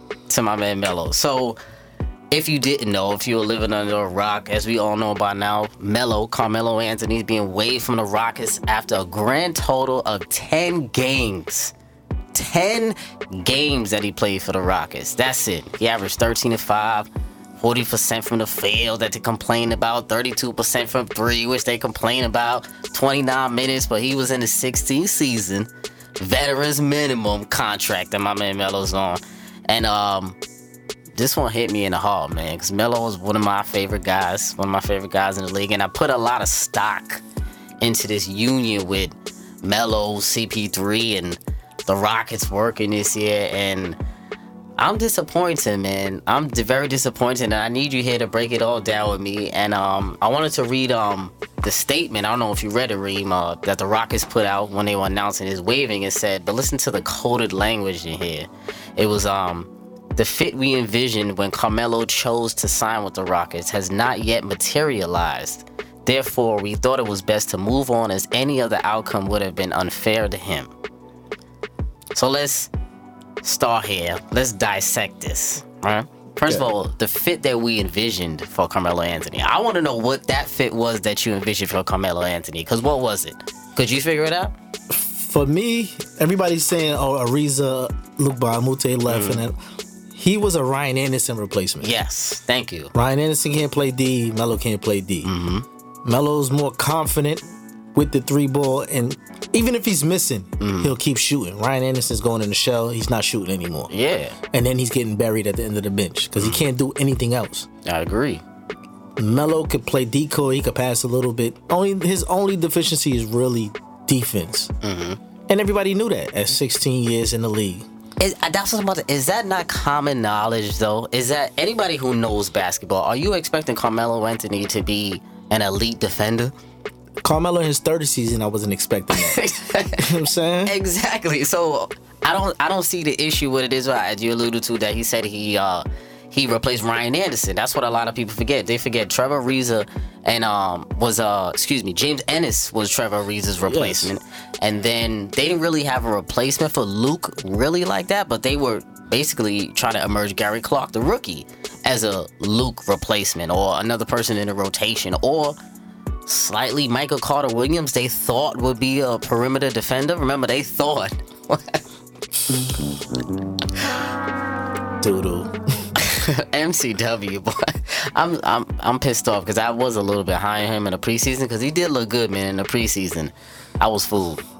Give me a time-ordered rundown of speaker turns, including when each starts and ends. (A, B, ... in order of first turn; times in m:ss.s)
0:00.3-0:01.6 A
0:02.3-0:11.7 A
0:12.3-0:30.4 A
0:31.1-0:37.2 A
0:37.8-0:44.0 A
0:44.8-1:10.7 A
1:12.1-1:12.7 A
1:13.4-1:24.5 A
1:24.9-1:29.6 B
1:29.1-1:29.4 A
1:30.1-1:31.9 B
1:31.8-1:32.9 A
1:32.9-1:35.3 B
1:35.2-1:35.6 A
1:36.0-1:43.9 B
1:40.6-1:40.9 A
1:43.9-1:44.4 A
1:44.5-1:47.7 B
1:46.4-1:46.6 A
1:47.8-1:48.4 A
1:49.2-1:54.7 B
1:54.8-1:55.2 A
1:55.5-1:57.9 B
1:58.2-2:06.5 A
2:07.2-2:09.4 B
2:09.1-2:10.1 A
2:10.0-2:10.7 B
2:10.6-2:35.6 A
2:23.6-2:24.1 B
2:36.2-2:41.8 A
2:45.0-2:45.9 B
2:46.0-2:54.4 A